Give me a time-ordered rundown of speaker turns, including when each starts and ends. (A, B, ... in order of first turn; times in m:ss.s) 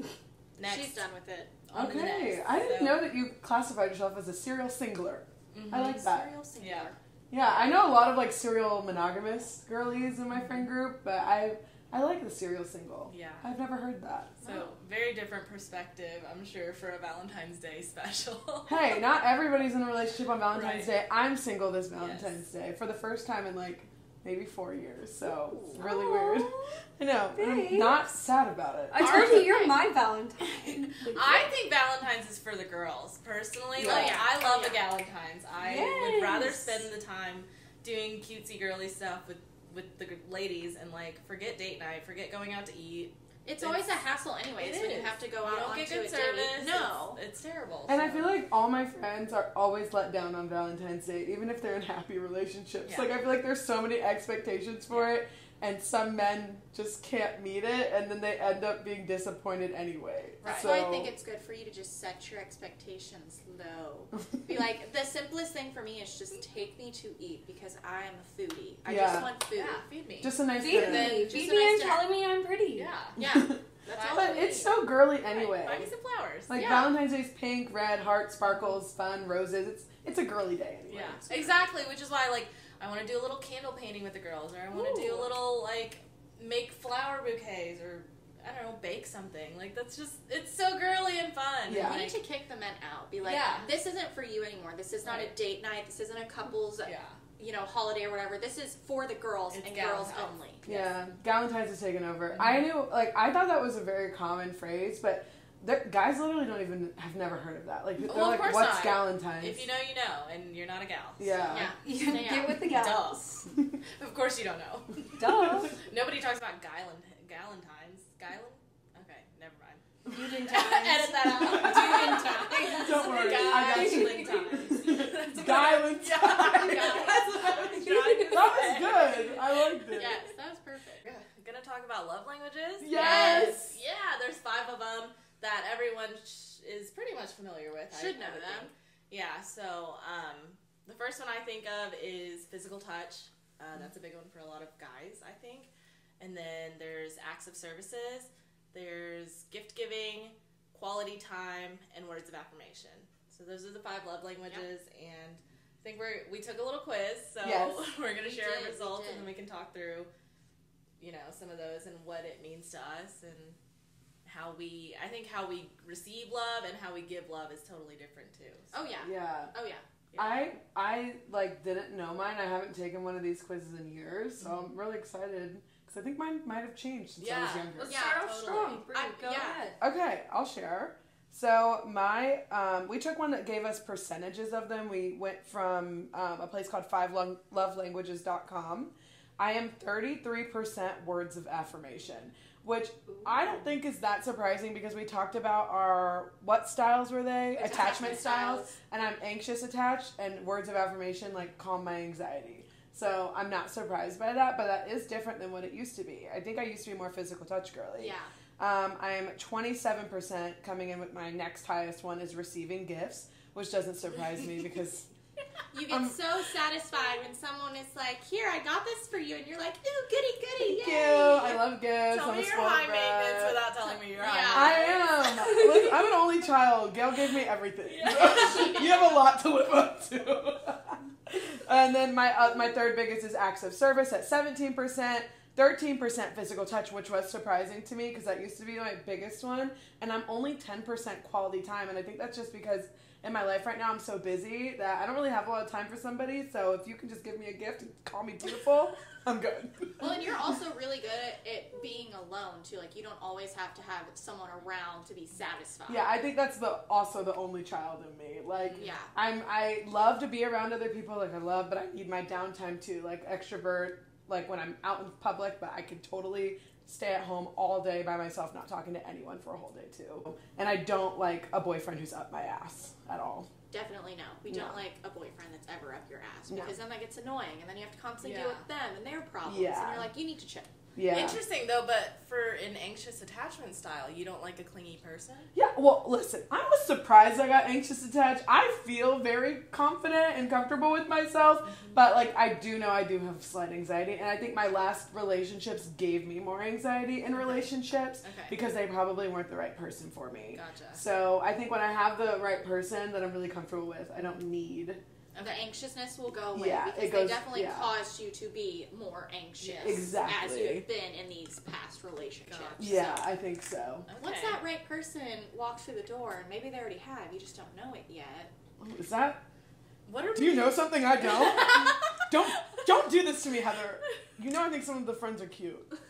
0:00.6-0:01.0 A
0:00.6-0:01.6 B
0:01.7-0:03.0 A
0:01.7-0:06.3 C
0:05.5-0:07.7 A
0:05.9-0:07.0 B
0:07.3-0:14.4 C
0:10.3-0:10.7 A
0:13.1-0:13.5 A
0:14.4-0:14.7 B
0:14.4-0:19.0 A
0:18.7-0:29.5 C
0:20.5-0:20.9 A
0:22.0-0:22.4 A
0:25.7-0:26.8 D
0:27.4-0:28.0 D
0:28.9-0:31.1 D
0:29.0-0:29.8 A
0:31.0-0:31.4 C
0:31.1-0:43.8 A
0:33.8-0:34.2 C
0:33.8-0:34.8 B
0:35.6-0:36.8 D
0:43.4-0:47.2 B
0:44.6-0:48.3 A
0:47.9-1:01.1 C
0:52.8-0:53.1 A
0:54.9-0:55.2 A
1:00.4-1:00.7 A
1:00.4-1:09.8 B
1:08.9-1:09.3 C
1:09.1-1:11.3 A
1:10.2-1:11.2 C
1:10.6-1:12.9 D
1:10.8-1:12.0 B
1:12.7-1:13.2 A
1:13.2-1:14.7 B
1:13.2-1:15.9 C
1:13.9-1:14.5 A
1:15.2-1:16.6 A
1:16.5-1:21.3 C
1:16.5-1:16.9 B
1:20.9-1:32.2 A
1:24.7-1:25.3 D
1:31.7-1:32.0 C
1:31.8-1:40.9 B
1:33.2-1:33.7 A
1:35.0-1:35.3 A
1:36.8-1:37.2 A
1:39.5-1:40.3 A
1:40.6-1:49.6 C
1:42.3-1:42.7 A
1:48.0-1:51.7 A
1:51.2-1:51.7 C
1:51.5-1:52.6 B
1:51.8-1:53.4 D
1:52.6-1:59.8 A
1:53.5-1:53.8 C
1:55.2-1:55.8 D
2:00.0-2:02.2 C
2:00.1-2:08.8 D
2:00.5-2:10.1 A
2:01.4-2:02.8 B
2:02.8-2:07.2 C
2:08.3-2:10.2 C
2:09.9-2:11.0 B
2:11.0-2:40.1 A
2:12.8-2:13.8 C
2:17.9-2:18.7 B
2:37.4-2:37.8 C
2:38.2-2:39.3 B
2:41.0-2:43.6 A
2:44.2-2:48.7 A
2:48.7-2:49.8 B
2:49.0-2:49.5 C
2:50.1-2:50.5 A
2:50.2-2:58.0 C
2:54.4-2:54.7 A
2:57.2-2:58.7 A
2:57.8-2:59.8 D
2:57.8-2:59.8 B
2:59.8-3:35.1 C
3:13.1-3:13.7 D
3:17.6-3:18.8 B
3:28.0-3:28.3 B
3:35.7-3:41.6 B
3:35.9-3:36.2 C
3:40.6-3:43.6 C
3:42.1-3:45.0 A
3:44.1-3:45.1 B
3:44.5-4:10.6 C
3:45.4-3:45.9 D
3:47.8-3:48.9 A
3:48.0-3:49.2 B
4:10.0-4:16.1 B
4:15.9-4:33.5 C
4:18.6-4:18.9 A
4:18.8-4:19.1 B
4:33.7-4:40.7 B
4:34.5-4:34.8 C
4:36.5-4:36.7 C
4:38.2-4:38.6 A
4:39.5-4:40.1 C
4:41.0-4:41.4 C
4:41.1-4:45.5 A
4:45.5-5:05.0 C
4:51.6-4:52.0 A
4:57.3-4:57.7 A
4:58.2-4:58.6 A
5:00.5-5:01.0 A
5:05.3-5:05.7 A
5:05.4-5:13.3 B
5:06.5-5:07.9 C
5:09.6-5:10.1 A
5:09.8-5:10.9 C
5:12.5-5:13.2 A
5:12.8-5:14.1 C
5:14.1-5:14.6 A
5:14.2-5:18.5 B
5:18.8-5:19.4 C
5:20.1-5:22.8 A
5:20.4-5:25.9 C